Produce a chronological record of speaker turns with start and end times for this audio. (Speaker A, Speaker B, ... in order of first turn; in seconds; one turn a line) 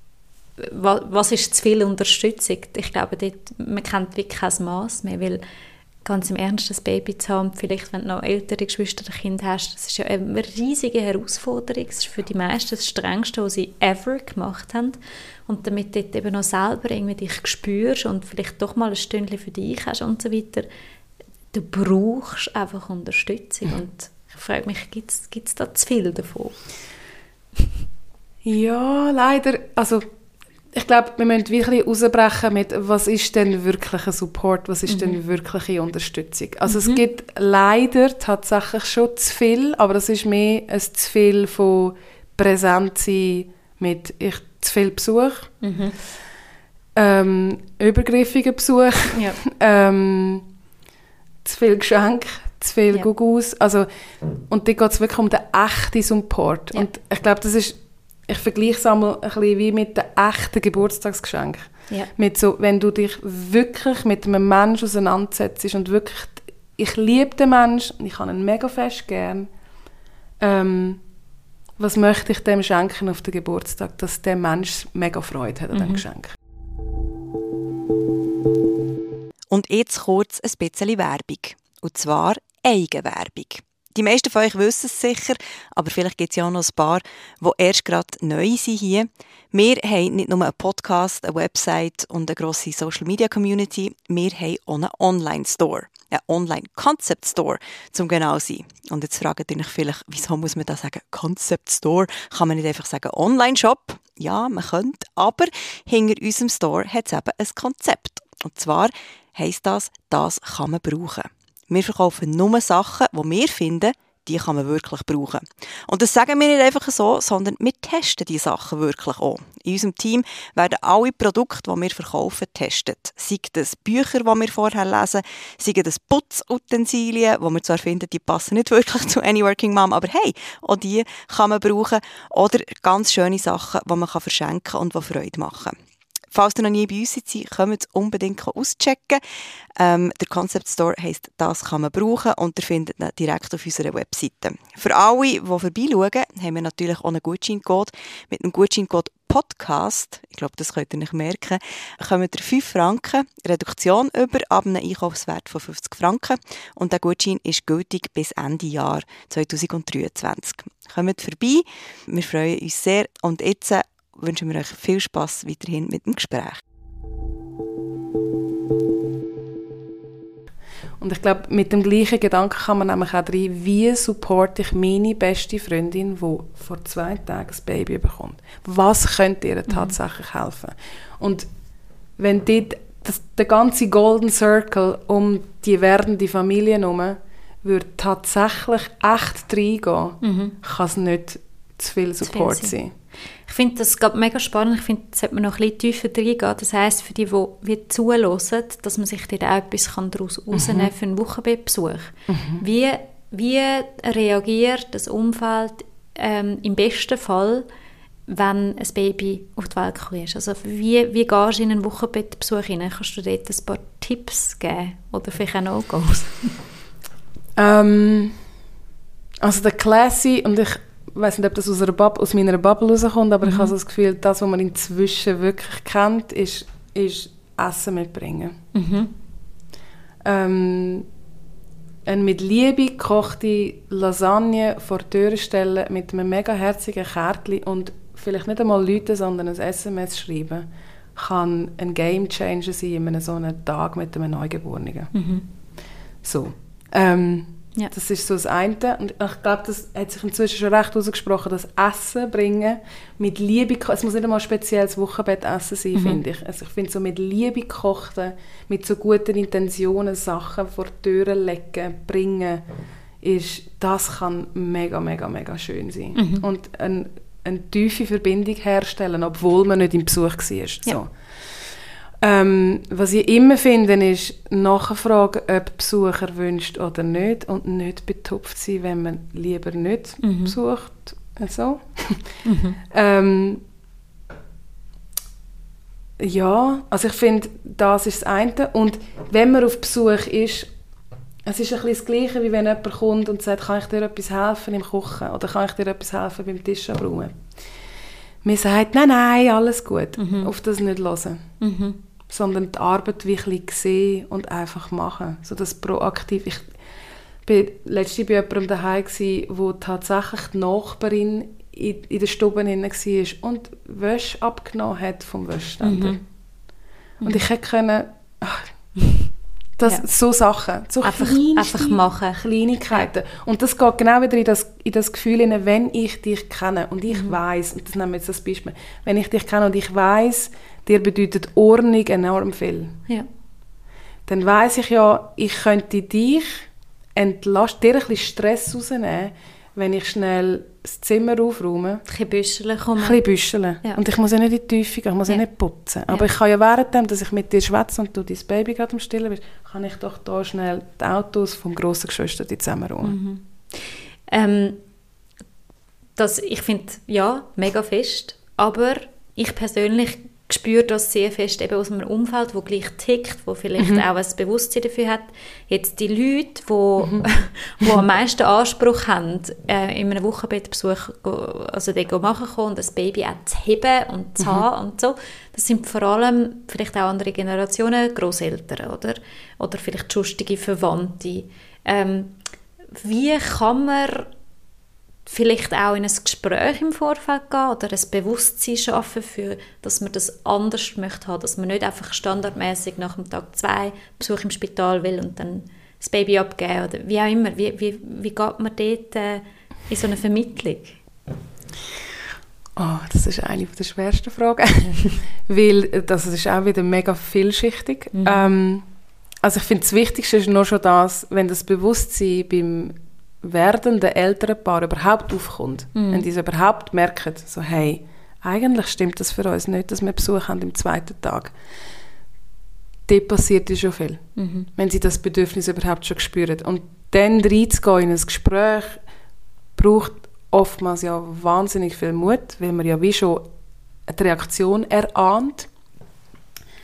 Speaker A: 0.6-5.4
Speaker A: 6.0-20.7
Speaker A: 21.5-26.5
Speaker B: 28.4-30.0
Speaker B: 30.7-45.5
Speaker A: 34.9-35.2
Speaker A: 36.7-37.0
Speaker A: 45.6-46.0
Speaker B: 47.0-50.4
Speaker A: 49.1-49.4
Speaker B: 51.4-53.9
Speaker B: 54.5-69.5
Speaker B: 70.4-71.0
Speaker B: 71.8-76.3
Speaker A: 75.7-76.0
Speaker C: 79.5-135.7
Speaker C: 136.3-139.2
Speaker C: 139.8-166.6
Speaker B: 171.0-181.4
Speaker A: 179.7-179.9
Speaker B: 182.2-192.9
Speaker A: 190.2-190.5
Speaker A: 192.2-192.7
Speaker A: 193.4-207.7
Speaker B: 200.5-200.9
Speaker B: 202.3-202.6
Speaker A: 208.3-216.6
Speaker B: 217.6-218.4
Speaker B: 219.4-228.6
Speaker A: 223.4-223.7
Speaker A: 228.7-229.1
Speaker B: 230.2-231.1
Speaker B: 232.1-245.1
Speaker A: 245.1-245.4
Speaker B: 246.2-262.6
Speaker A: 255.9-256.2
Speaker B: 263.2-271.1
Speaker A: 266.1-266.4
Speaker B: 272.2-283.6
Speaker A: 280.2-280.5
Speaker A: 282.4-282.8
Speaker B: 286.2-290.7
Speaker B: 291.4-297.3
Speaker B: 298.4-301.5
Speaker A: 300.2-300.5
Speaker A: 301.6-302.0
Speaker B: 302.3-306.7
Speaker B: 307.4-316.2
Speaker A: 315.8-316.2
Speaker B: 317.2-318.9
Speaker B: 319.8-333.0
Speaker A: 321.0-322.4
Speaker A: 327.1-327.4
Speaker B: 334.2-342.0
Speaker A: 342.1-343.2
Speaker B: 343.0-353.1
Speaker A: 353.0-354.8
Speaker A: 356.1-382.4
Speaker B: 363.8-364.0
Speaker B: 367.0-367.3
Speaker B: 374.4-374.6
Speaker A: 382.9-384.3
Speaker A: 385.2-401.0
Speaker B: 402.8-408.8
Speaker A: 408.1-408.5
Speaker B: 409.4-421.5
Speaker A: 415.9-416.2
Speaker B: 423.1-424.2
Speaker A: 424.4-424.7
Speaker B: 424.7-429.0
Speaker B: 429.8-433.5
Speaker B: 434.1-435.7